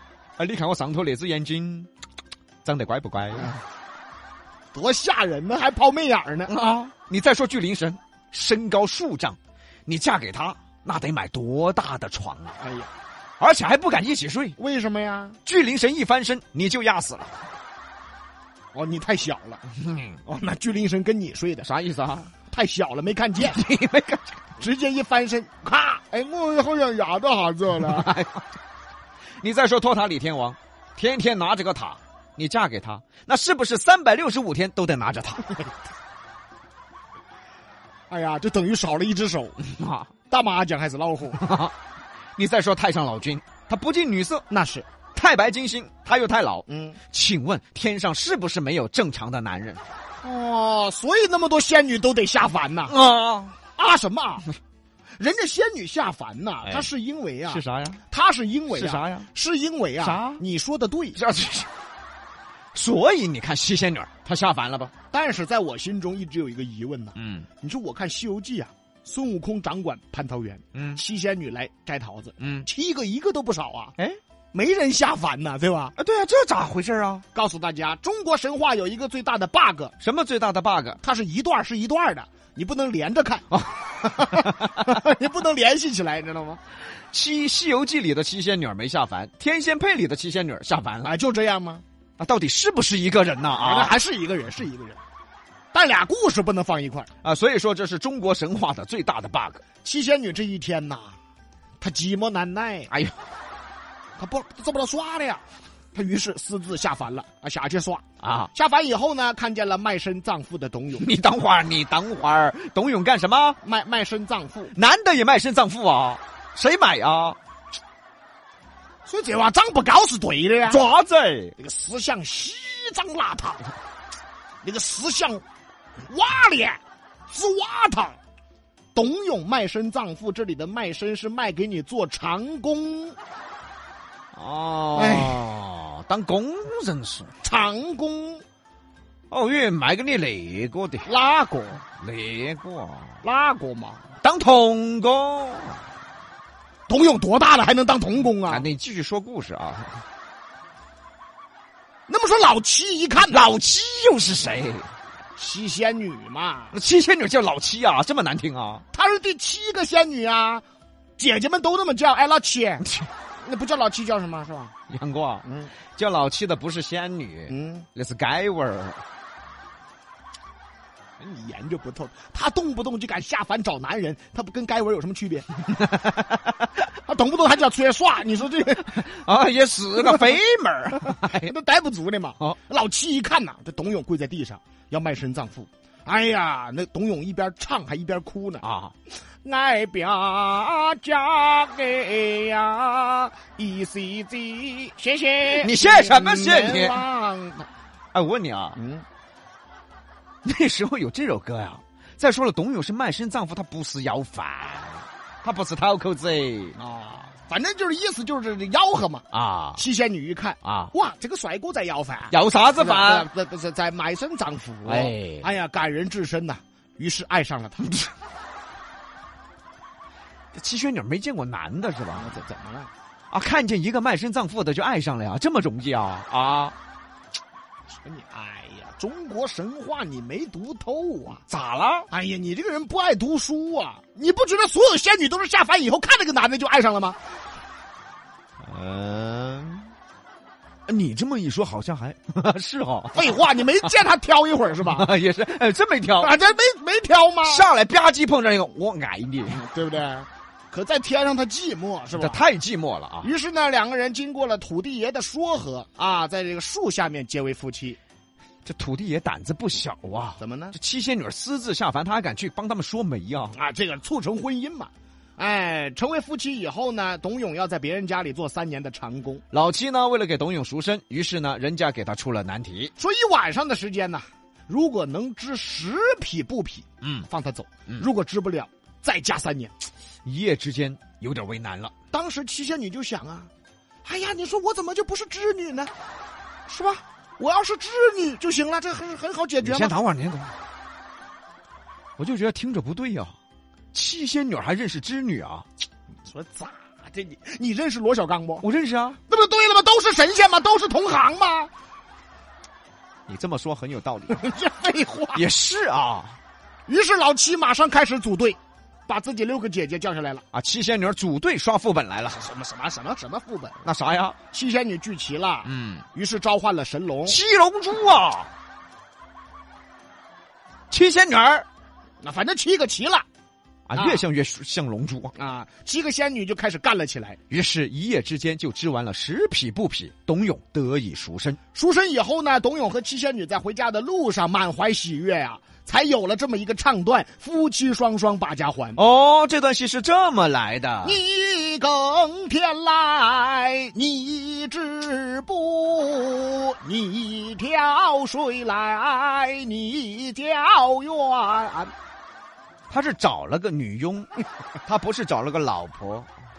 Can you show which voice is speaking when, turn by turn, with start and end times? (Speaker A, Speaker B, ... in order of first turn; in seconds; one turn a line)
Speaker A: 0.4-1.9
Speaker A: 2.6-3.5
Speaker B: 4.7-6.5
Speaker A: 6.5-12.6
Speaker B: 12.6-12.9
Speaker A: 13.4-14.6
Speaker B: 14.6-15.4
Speaker A: 15.4-17.4
Speaker B: 18.7-19.6
Speaker A: 19.8-20.2
Speaker B: 20.2-21.7
Speaker A: 21.6-22.3
Speaker B: 22.5-23.6
Speaker A: 23.4-24.4
Speaker B: 24.6-28.1
Speaker A: 27.8-28.4
Speaker A: 29.4-35.5
Speaker B: 38.1-39.6
Speaker A: 39.7-40.1
Speaker B: 40.3-41.4
Speaker A: 41.4-41.7
Speaker A: 42.4-44.5
Speaker B: 44.5-44.9
Speaker A: 45.1-49.8
Speaker B: 46.7-47.0
Speaker B: 50.2-53.0
Speaker A: 52.9-53.6
Speaker B: 53.8-54.5
Speaker B: 55.2-61.2
Speaker A: 57.5-58.0
Speaker A: 58.7-59.3
Speaker A: 60.0-60.4
Speaker A: 61.1-61.7
Speaker A: 62.7-64.9
Speaker B: 65.1-74.0
Speaker A: 67.2-67.5
Speaker A: 70.7-71.0
Speaker A: 72.4-72.7
Speaker B: 74.5-76.0
Speaker A: 76.0-77.3
Speaker B: 77.3-79.9
Speaker A: 80.0-81.0
Speaker B: 81.0-86.6
Speaker A: 87.1-91.1
Speaker B: 91.0-91.8
Speaker A: 92.2-94.0
Speaker B: 93.6-95.0
Speaker B: 95.7-97.1
Speaker A: 97.2-99.6
Speaker B: 99.8-101.2
Speaker B: 101.8-102.9
Speaker A: 102.9-103.2
Speaker B: 104.2-111.1
Speaker A: 108.2-108.5
Speaker A: 111.0-113.6
Speaker B: 113.6-114.7
Speaker A: 114.7-117.4
Speaker B: 119.1-120.8
Speaker A: 120.7-121.5
Speaker B: 121.6-123.7
Speaker B: 124.6-125.4
Speaker B: 126.1-128.2
Speaker B: 128.9-133.2
Speaker A: 134.3-137.3
Speaker B: 134.9-135.5
Speaker B: 137.4-138.4
Speaker A: 139.3-141.1
Speaker B: 141.1-141.8
Speaker A: 142.0-143.2
Speaker B: 143.2-144.0
Speaker A: 144.2-145.8
Speaker B: 146.9-148.7
Speaker A: 148.5-150.0
Speaker B: 152.1-153.5
Speaker A: 153.3-154.9
Speaker B: 155.4-156.8
Speaker A: 156.7-158.9
Speaker B: 158.9-160.6
Speaker B: 161.2-162.9
Speaker B: 163.4-164.7
Speaker A: 164.9-169.0
Speaker B: 165.4-165.7
Speaker B: 167.5-167.9
Speaker B: 171.2-175.5
Speaker A: 175.8-176.4
Speaker B: 177.1-179.0
Speaker A: 178.8-181.5
Speaker B: 181.2-197.7
Speaker A: 188.6-188.9
Speaker A: 195.5-197.0
Speaker A: 198.1-198.8
Speaker B: 198.8-199.1
Speaker A: 200.4-206.8
Speaker B: 206.8-218.1
Speaker A: 209.3-209.8
Speaker A: 210.6-210.9
Speaker A: 212.3-213.3
Speaker A: 214.8-215.5
Speaker A: 220.5-222.4
Speaker B: 222.2-222.9
Speaker A: 223.3-226.8
Speaker B: 228.0-231.4
Speaker A: 231.5-232.1
Speaker B: 232.1-237.2
Speaker A: 238.6-239.9
Speaker A: 240.9-243.6
Speaker B: 243.1-245.1
Speaker A: 244.8-246.3
Speaker B: 246.2-247.7
Speaker A: 247.4-249.6
Speaker B: 249.5-252.4
Speaker A: 252.1-253.3
Speaker B: 253.2-258.0
Speaker A: 258.6-263.6
Speaker B: 260.4-260.8
Speaker B: 263.5-269.4
Speaker A: 269.5-272.9
Speaker B: 273.0-279.7
Speaker A: 277.0-277.3
Speaker A: 280.2-281.9
Speaker B: 282.1-283.5
Speaker B: 284.1-285.9
Speaker B: 286.7-289.9
Speaker A: 289.6-290.6
Speaker A: 292.2-293.4
Speaker A: 293.9-295.7
Speaker B: 296.3-298.7
Speaker A: 298.6-299.2
Speaker B: 299.3-301.7
Speaker A: 303.3-304.4
Speaker B: 304.3-305.4
Speaker A: 305.3-306.4
Speaker B: 306.9-310.4
Speaker A: 310.5-312.4
Speaker B: 312.3-313.9
Speaker A: 313.8-314.4
Speaker B: 314.5-317.4
Speaker A: 315.6-316.1
Speaker A: 317.3-318.5
Speaker A: 320.9-321.7
Speaker B: 322.2-323.3
Speaker A: 323.9-325.4
Speaker B: 323.9-324.2
Speaker B: 325.4-327.4
Speaker A: 327.5-331.6
Speaker B: 331.7-339.0
Speaker A: 339.0-341.2
Speaker B: 341.0-351.9
Speaker A: 352.9-354.3
Speaker A: 354.9-356.3